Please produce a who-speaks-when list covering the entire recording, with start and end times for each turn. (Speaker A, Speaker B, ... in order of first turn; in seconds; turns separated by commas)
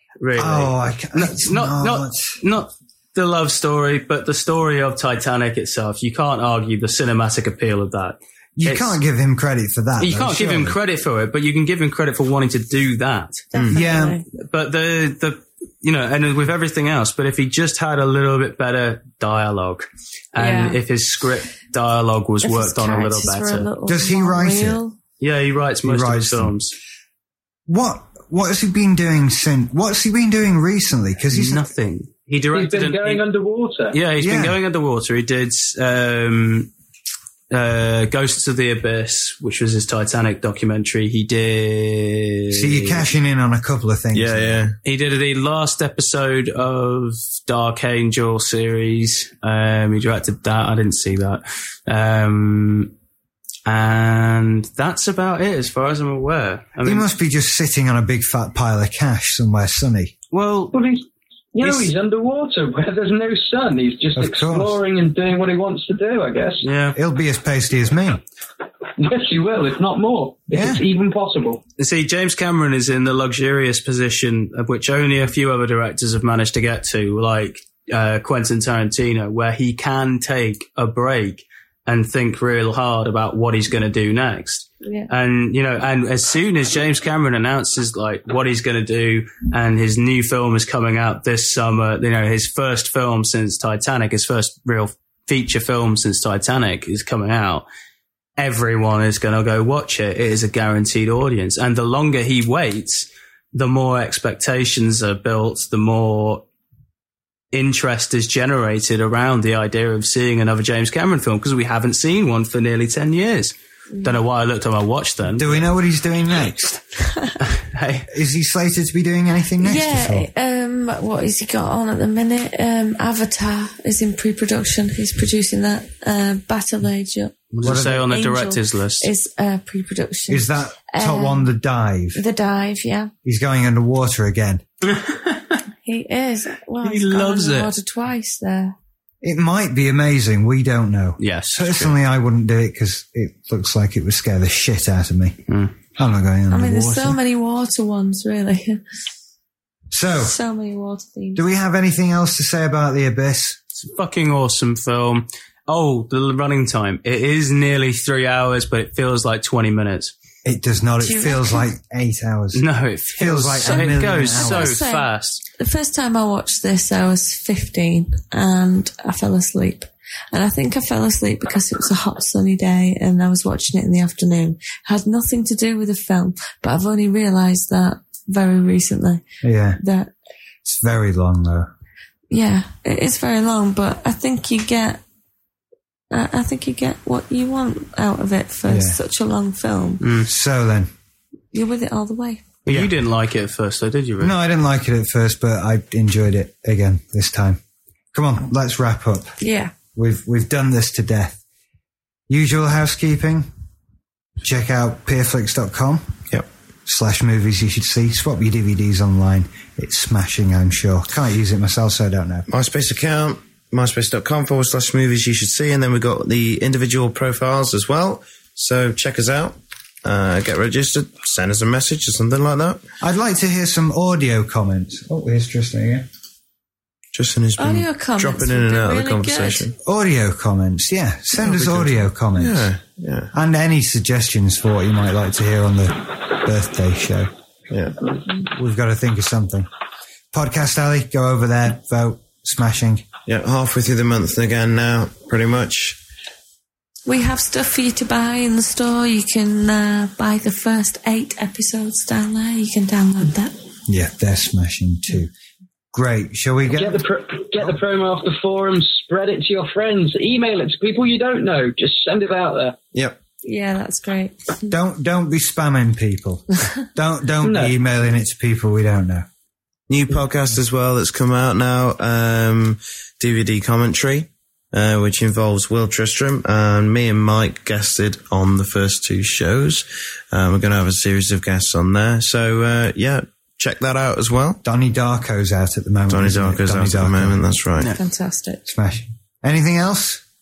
Speaker A: 0.2-9.0, Speaker B: 0.4-2.4, Speaker B: 8.6-10.8, Speaker A: 10.0-13.5, Speaker C: 13.5-14.2, Speaker B: 13.7-14.2, Speaker A: 14.3-23.7, Speaker C: 20.4-20.8, Speaker C: 22.4-25.0, Speaker B: 23.9-24.8, Speaker A: 25.2-26.8, Speaker B: 25.8-26.5, Speaker B: 27.7-31.6, Speaker A: 31.3-33.2, Speaker D: 32.5-34.0, Speaker A: 33.9-36.7, Speaker B: 34.2-34.6, Speaker A: 37.5-43.1, Speaker B: 42.5-44.6, Speaker E: 44.1-44.8, Speaker A: 44.8-52.9, Speaker A: 53.7-57.1, Speaker B: 56.9-60.1, Speaker A: 60.3-60.8, Speaker D: 60.7-66.7, Speaker A: 61.6-61.9, Speaker B: 64.2-64.8, Speaker A: 66.6-67.0, Speaker B: 67.0-68.2, Speaker D: 69.0-71.6, Speaker B: 70.5-70.8, Speaker A: 71.8-97.7, Speaker C: 84.8-85.1, Speaker A: 98.4-106.4, Speaker A: 107.5-115.7, Speaker B: 115.3-116.8, Speaker A: 117.4-118.1, Speaker B: 118.1-120.3, Speaker C: 119.6-131.5, Speaker A: 127.5-129.1, Speaker B: 127.6-128.1, Speaker B: 130.3-132.2, Speaker C: 132.2-133.1, Speaker B: 133.2-134.6, Speaker A: 134.9-135.6, Speaker C: 135.8-138.8, Speaker A: 136.8-137.7, Speaker B: 139.2-145.4, Speaker A: 141.2-142.0, Speaker A: 145.5-145.7, Speaker B: 146.0-147.2, Speaker C: 146.5-148.8, Speaker B: 149.9-150.4, Speaker C: 150.1-151.4, Speaker B: 151.4-153.6, Speaker A: 153.8-160.1, Speaker B: 160.4-162.6, Speaker C: 161.0-161.7, Speaker A: 162.5-165.4, Speaker B: 163.2-164.8, Speaker C: 163.7-179.2, Speaker B: 179.4-179.8, Speaker C: 179.8-180.1, Speaker B: 180.6-181.7, Speaker C: 182.3-185.0, Speaker C: 186.1-190.0, Speaker B: 188.7-189.0, Speaker A: 190.0-190.3, Speaker B: 190.2-190.9, Speaker C: 191.5-192.6, Speaker A: 192.7-194.3, Speaker B: 194.2-197.6, Speaker B: 198.1-199.3, Speaker C: 199.4-199.7, Speaker B: 199.9-201.4, Speaker B: 202.3-203.5, Speaker B: 204.4-206.2, Speaker B: 206.9-212.5, Speaker E: 212.5-222.8, Speaker B: 223.0-226.1, Speaker E: 227.1-229.7, Speaker C: 227.6-229.7, Speaker B: 229.8-232.7, Speaker E: 232.4-233.3, Speaker B: 233.3-237.3, Speaker E: 237.7-238.0, Speaker B: 238.4-239.7, Speaker B: 240.3-243.1, Speaker E: 243.3-246.0, Speaker C: 247.1-253.6, Speaker B: 253.9-255.3, Speaker B: 255.9-257.0, Speaker D: 256.7-262.8, Speaker C: 263.4-264.7, Speaker B: 264.7-269.3, Speaker D: 267.4-267.7, Speaker E: 269.9-284.6, Speaker B: 284.6-287.5, Speaker E: 286.1-288.0, Speaker C: 287.9-288.6, Speaker B: 288.6-290.2